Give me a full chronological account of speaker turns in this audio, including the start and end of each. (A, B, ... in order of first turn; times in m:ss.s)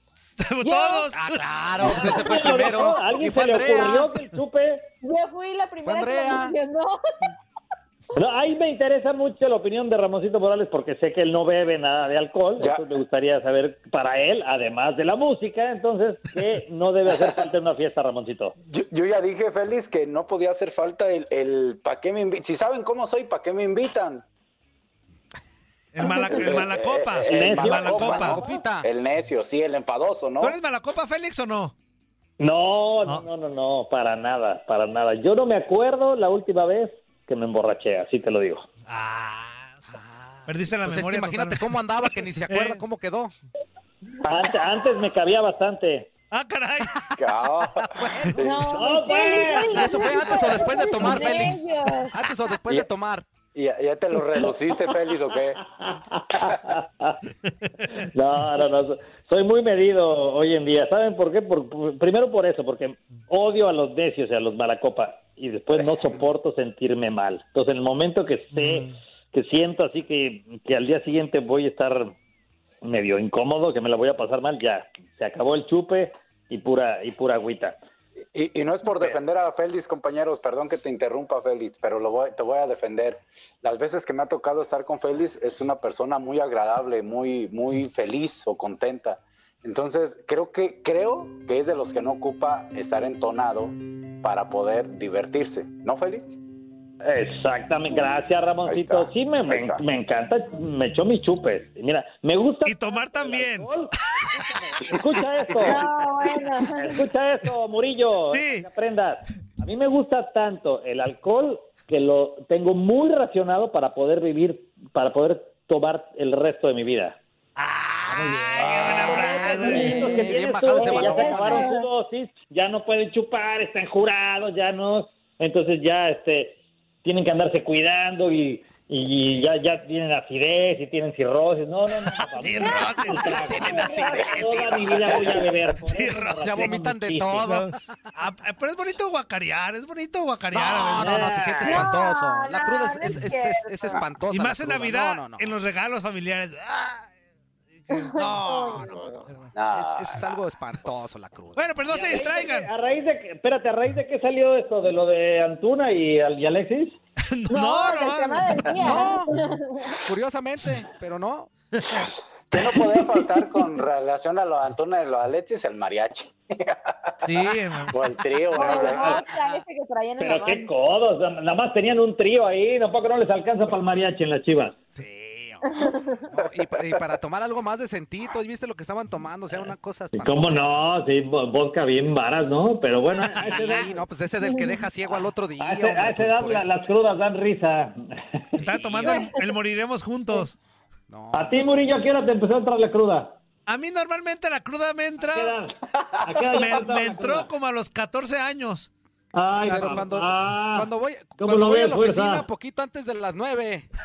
0:00.4-0:01.4 A
0:00.6-0:01.1 B
0:01.1-0:04.2 C
0:01.8-0:03.0 B
0:01.8-0:04.8 D
0:05.0-0:07.3 B
0:05.8-0:06.5 C
0:08.1-0:18.5 D
0:12.6-0:12.8 E
0:18.7-0:24.2 E
0:25.9-0:28.4 A
0:26.3-0:30.6 E
0:27.2-0:28.4 D
0:28.0-0:28.9 C
0:30.4-0:31.7 A
0:32.4-0:38.6 D
0:38.9-0:40.0 A
0:39.9-0:43.3 C
0:40.5-0:41.8 A
0:42.5-0:42.8 A
0:44.2-0:46.1 D
0:46.3-0:47.2 A
0:47.2-0:48.1 E
0:47.8-0:48.8 C
0:48.4-0:52.2 B
0:48.7-0:50.4 D
0:49.6-0:53.3 C
0:51.1-0:51.4 D
0:53.5-0:55.6 E
0:55.8-0:57.2 D
0:58.0-1:12.1 D
1:12.8-1:17.8 D
1:18.3-1:36.2 E
1:37.0-1:45.8 D
1:38.6-1:39.8 E
1:42.6-1:43.7 A
1:45.6-1:47.0 B
1:46.8-1:57.2 D
1:48.3-1:48.6 A
1:57.6-1:59.9 A
1:58.1-2:17.5 D
1:58.7-1:59.0 C
1:59.6-2:01.7 C
1:59.6-2:01.9 B
2:12.4-2:14.2 A
2:12.6-2:14.0 B
2:13.7-2:15.4 E
2:15.8-2:16.8 A
2:16.4-2:18.0 C
2:17.4-2:21.4 A
2:20.5-2:25.6 C
2:21.0-2:21.8 D
2:21.6-2:24.0 B
2:24.3-2:27.1 A
2:27.9-2:29.2 B
2:28.1-2:31.7 C
2:29.5-2:30.3 E
2:31.6-2:32.7 A
2:31.9-2:37.0 D
2:37.3-2:38.8 A
2:37.5-2:40.0 B
2:38.8-2:39.3 C
2:40.0-2:41.5 C
2:41.8-2:42.1 A
2:42.5-2:49.3 E
2:47.2-2:48.0 A
2:48.5-2:50.7 B
2:48.6-2:49.6 D
2:50.2-2:54.8 D
2:55.0-2:55.6 A
2:55.6-2:56.3 B
2:56.3-3:00.9 C
3:00.1-3:04.0 D
3:03.1-3:06.7 C
3:03.3-3:03.8 A
3:04.4-3:04.7 B
3:05.6-3:08.6 D
3:08.6-3:10.5 A
3:09.0-3:09.4 B
3:11.1-3:11.6 C
3:11.3-3:13.3 D
3:13.7-3:15.5 A
3:15.2-3:17.5 D
3:16.5-3:18.9 A
3:19.3-3:22.4 D
3:19.6-3:23.9 C